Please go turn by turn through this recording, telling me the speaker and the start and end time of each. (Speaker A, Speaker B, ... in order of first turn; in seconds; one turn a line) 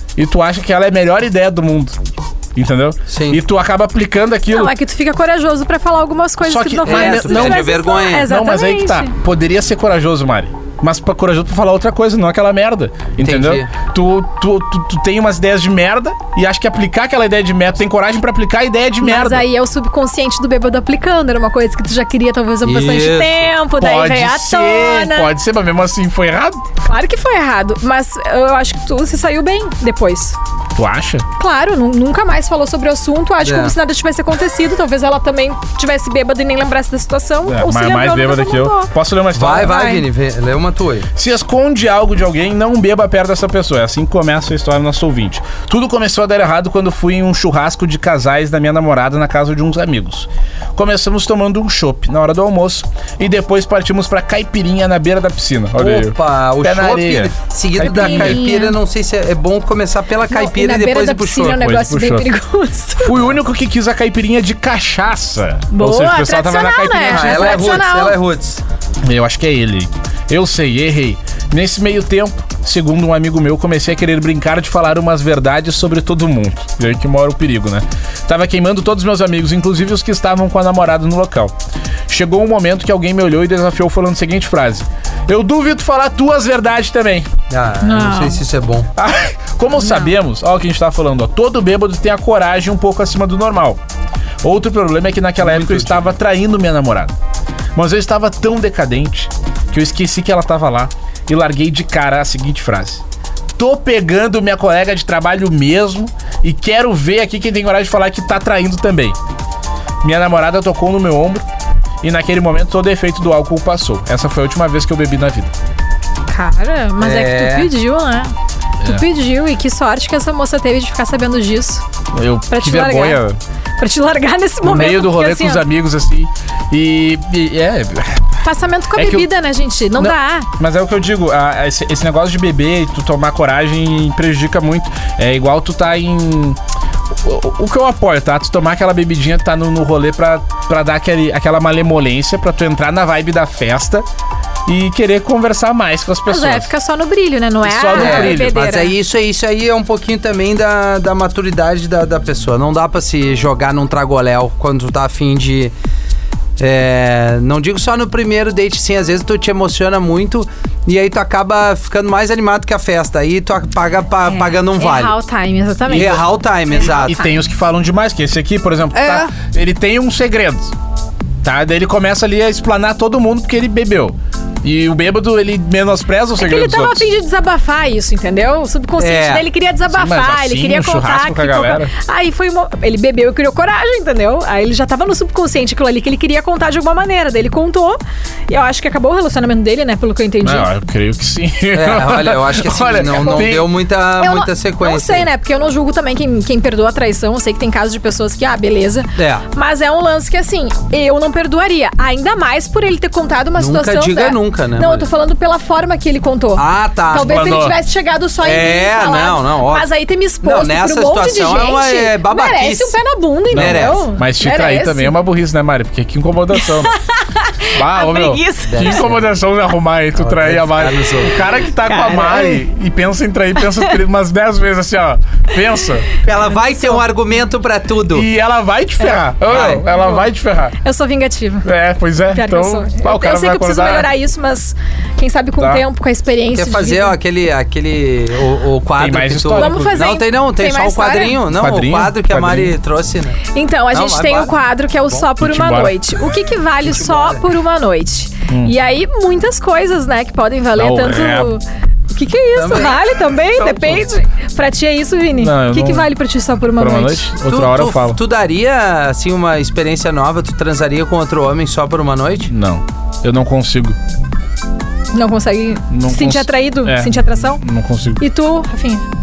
Speaker A: 0.2-2.0
Speaker A: 2.5-4.7
Speaker B: 3.1-3.4
Speaker C: 4.5-9.1
Speaker A: 6.4-19.4
Speaker B: 6.9-8.3
Speaker B: 13.2-13.7
Speaker C: 19.0-25.3
Speaker B: 22.6-23.5
Speaker A: 23.8-26.6
Speaker C: 26.8-30.4
Speaker A: 30.8-31.3
Speaker C: 31.4-38.9
Speaker B: 33.4-33.8
Speaker A: 37.5-39.8
Speaker B: 39.3-41.1
Speaker C: 39.5-40.0
Speaker A: 41.2-58.4
Speaker B: 55.8-61.6
Speaker C: 57.8-58.8
Speaker C: 60.3-63.2
Speaker A: 61.4-62.3
Speaker A: 63.0-67.7
Speaker C: 65.7-68.2
Speaker B: 67.1-68.6
Speaker A: 69.0-81.5
Speaker A: 82.1-87.3
Speaker B: 87.5-88.9
Speaker C: 87.8-88.4
Speaker A: 89.0-93.8
Speaker C: 89.8-90.1
Speaker A: 94.4-97.1
Speaker B: 95.4-96.1
Speaker A: 97.8-103.0
Speaker A: 103.6-109.2
Speaker A: 110.0-111.4
Speaker A: 112.0-115.5
Speaker C: 116.3-118.3
Speaker B: 117.0-117.7
Speaker C: 118.8-121.8
Speaker A: 122.1-123.4
Speaker C: 122.5-123.2
Speaker C: 123.8-125.6
Speaker A: 124.6-128.4
Speaker C: 128.4-130.5
Speaker A: 129.0-129.3
Speaker A: 130.0-136.6
Speaker A: 137.2-144.1
Speaker A: 144.7-146.7
Speaker C: 146.3-148.9
Speaker A: 147.6-148.6
Speaker B: 147.9-155.7
Speaker B: 156.6-165.2
Speaker C: 164.3-167.3
Speaker A: 165.9-166.2
Speaker B: 165.9-167.2
Speaker A: 166.8-170.7
Speaker B: 168.9-169.3
Speaker A: 171.4-177.0
Speaker C: 176.4-190.7
Speaker B: 179.0-179.5
Speaker A: 179.8-181.9
Speaker A: 190.4-193.7
Speaker B: 191.7-195.3
Speaker C: 193.1-193.5
Speaker C: 194.2-215.1
Speaker B: 199.2-199.5
Speaker B: 203.6-205.1
Speaker B: 206.6-207.5
Speaker A: 207.1-207.8
Speaker B: 208.4-209.9
Speaker B: 210.4-213.0
Speaker B: 213.5-214.1
Speaker A: 213.5-216.9
Speaker C: 216.6-219.1
Speaker A: 217.8-226.1
Speaker B: 218.7-219.3
Speaker B: 220.2-221.3
Speaker C: 221.8-222.6
Speaker B: 226.2-228.3
Speaker C: 226.5-227.0
Speaker A: 228.1-230.8
Speaker C: 229.0-230.3
Speaker B: 229.4-229.9
Speaker C: 230.8-231.7
Speaker A: 231.7-234.1
Speaker C: 232.3-237.2
Speaker A: 235.6-235.8
Speaker B: 236.5-243.4
Speaker A: 239.0-240.1
Speaker C: 239.6-241.4
Speaker A: 241.5-242.7
Speaker C: 243.5-257.3
Speaker B: 243.9-244.6
Speaker A: 245.3-246.0
Speaker B: 246.8-247.5
Speaker A: 248.5-248.7
Speaker A: 250.8-251.6
Speaker B: 252.6-253.0
Speaker A: 253.6-254.1
Speaker A: 255.4-256.1
Speaker A: 256.7-258.2
Speaker B: 257.4-262.5
Speaker A: 262.5-264.0
Speaker C: 265.1-267.6
Speaker A: 265.9-268.2
Speaker C: 268.2-269.1